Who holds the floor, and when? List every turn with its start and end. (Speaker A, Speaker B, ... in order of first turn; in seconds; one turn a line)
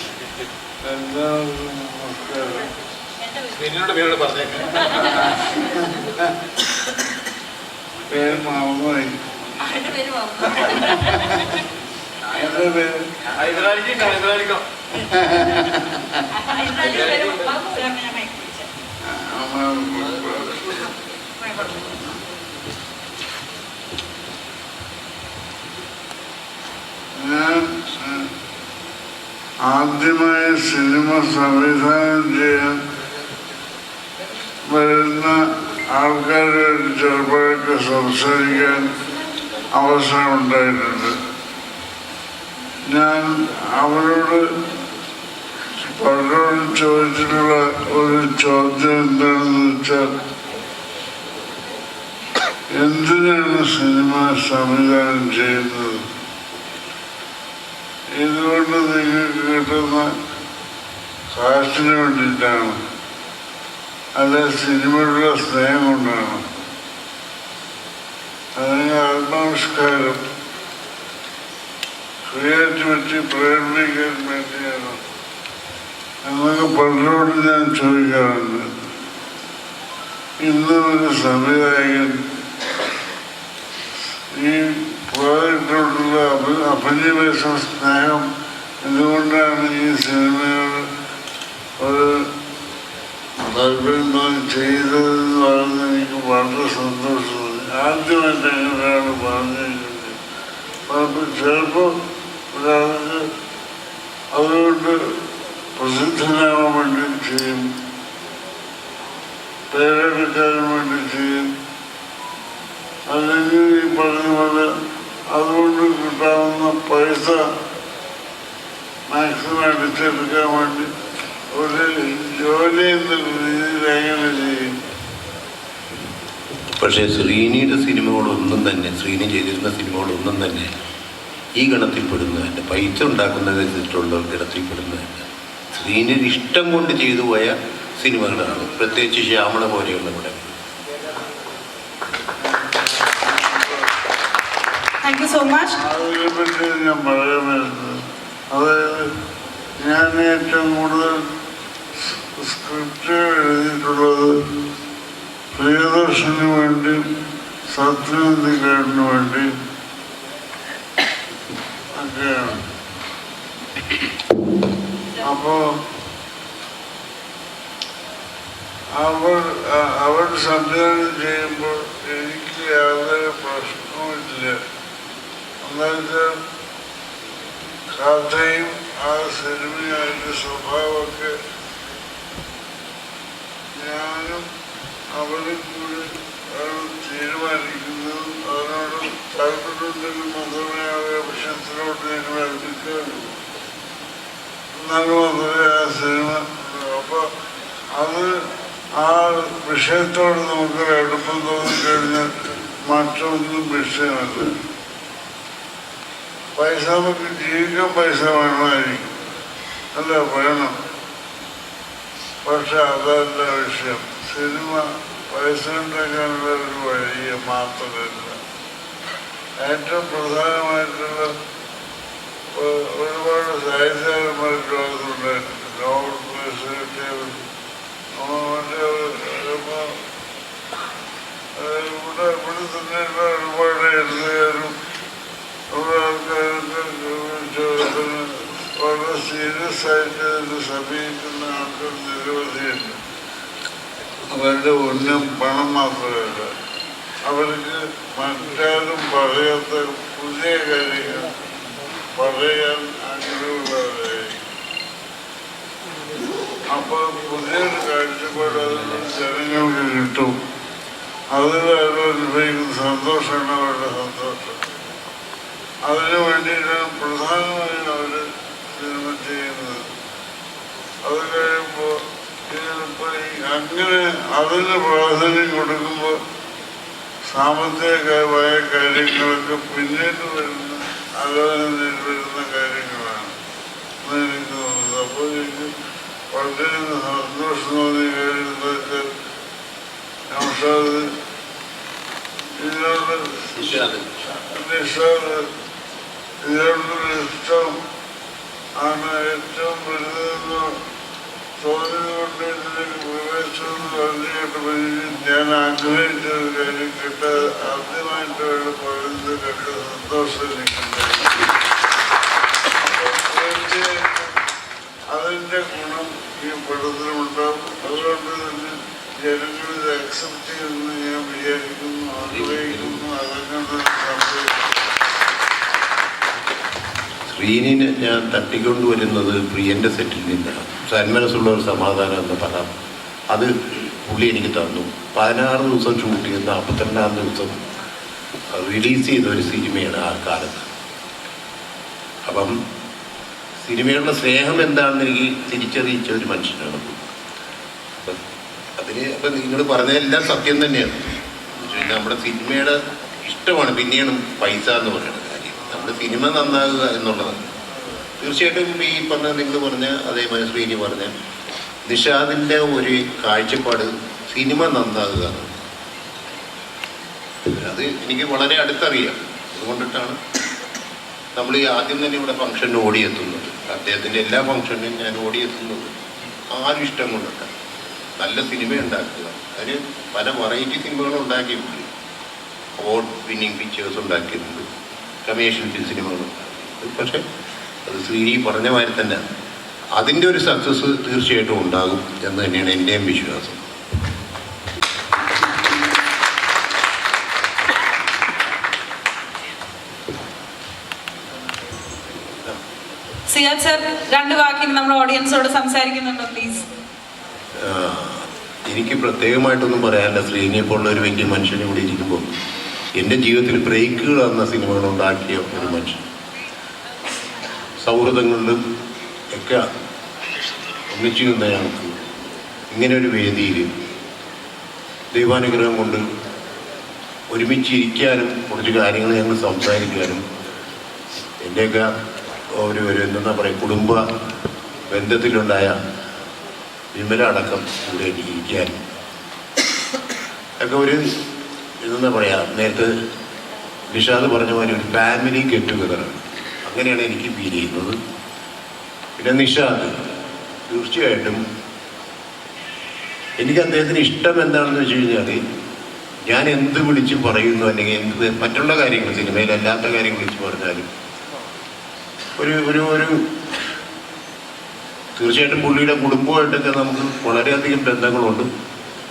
Speaker A: 0.8-2.7
Speaker B: 3.5-4.7
Speaker A: 4.9-5.8
Speaker A: 8.1-9.1
Speaker A: 10.4-11.6
Speaker A: 12.3-13.0
Speaker B: 13.6-14.6
Speaker A: 14.9-16.2
Speaker C: 16.8-18.5
Speaker B: 16.9-17.7
Speaker A: 19.1-20.8
Speaker A: 21.4-22.2
Speaker A: 27.1-28.3
Speaker A: 29.6-32.8
Speaker A: 34.7-35.4
Speaker A: 35.9-38.9
Speaker A: 39.7-41.2
Speaker A: 42.9-44.4
Speaker A: 45.8-50.1
Speaker A: 52.7-56.0
Speaker A: 58.2-60.1
Speaker A: 61.3-62.7
Speaker A: 64.2-66.4
Speaker A: 68.6-70.2
Speaker A: 72.3-75.0
Speaker A: 76.2-78.7
Speaker A: 80.4-82.2
Speaker A: 84.3-88.2
Speaker A: 88.8-90.8
Speaker A: 91.8-92.2
Speaker A: 93.4-100.2
Speaker A: 100.9-101.9
Speaker A: 102.5-103.2
Speaker A: 104.3-105.0
Speaker A: 105.8-107.6
Speaker A: 109.7-111.5
Speaker A: 113.1-114.7
Speaker A: 115.3-117.4
Speaker A: 119.1-120.9
Speaker A: 121.5-124.7
Speaker D: 126.8-130.7
Speaker D: 131.6-140.5
Speaker A: 142.4-143.9
Speaker C: 145.0-145.8
Speaker A: 145.8-149.1
Speaker A: 149.8-151.2
Speaker A: 152.2-154.3
Speaker A: 155.5-157.0
Speaker A: 157.7-159.5
Speaker A: 162.0-162.6
Speaker A: 165.2-165.6
Speaker A: 168.9-174.6
Speaker A: 175.6-176.3
Speaker A: 177.9-181.3
Speaker A: 183.7-184.4
Speaker A: 185.1-193.4
Speaker A: 194.8-197.3
Speaker A: 197.9-198.3
Speaker A: 198.9-204.6
Speaker A: 206.6-209.1
Speaker A: 209.9-210.7
Speaker A: 212.4-218.4
Speaker A: 219.6-221.3
Speaker A: 222.5-227.4
Speaker A: 228.2-229.9
Speaker A: 231.6-234.7
Speaker A: 235.7-243.0
Speaker A: 244.3-246.5
Speaker A: 247.3-251.3
Speaker A: 252.2-254.4
Speaker A: 256.7-260.4
Speaker A: 261.3-264.6
Speaker A: 265.9-269.9
Speaker A: 271.1-271.9
Speaker A: 272.5-276.2
Speaker A: 277.3-283.3
Speaker A: 284.0-285.7
Speaker A: 286.3-289.1
Speaker A: 290.3-291.1
Speaker A: 292.6-293.6
Speaker D: 293.5-294.1
Speaker A: 294.3-295.5
Speaker A: 296.4-297.7
Speaker A: 298.8-300.7
Speaker A: 301.6-311.4
Speaker A: 312.8-314.4
Speaker A: 315.1-324.6
Speaker D: 322.3-323.0
Speaker D: 327.3-332.7
Speaker D: 334.1-337.6
Speaker D: 338.5-340.7
Speaker D: 342.3-342.5
Speaker D: 343.6-347.1
Speaker D: 348.8-351.0
Speaker D: 351.6-357.5
Speaker D: 358.2-361.1
Speaker D: 361.9-365.5
Speaker D: 367.5-370.2
Speaker D: 371.4-375.9
Speaker D: 376.5-377.5
Speaker D: 378.2-381.9
Speaker D: 382.8-384.6
Speaker D: 385.3-387.2
Speaker D: 387.9-389.2
Speaker D: 390.0-393.6
Speaker C: 403.3-406.6
Speaker D: 407.6-412.3
Speaker D: 413.0-416.0
Speaker D: 417.8-418.6
Speaker D: 419.3-419.6
Speaker D: 420.9-422.0
Speaker D: 422.7-423.7
Speaker D: 425.1-426.0
Speaker D: 427.3-430.2
Speaker D: 431.4-431.9
Speaker D: 432.6-434.0
Speaker D: 434.9-435.8
Speaker D: 436.9-438.8
Speaker D: 440.6-441.0
Speaker D: 441.8-442.9
Speaker D: 443.9-448.0
Speaker D: 449.2-449.9
Speaker D: 450.7-451.4
Speaker D: 453.4-455.4
Speaker D: 456.3-460.9
Speaker D: 462.4-463.2
Speaker D: 465.2-468.5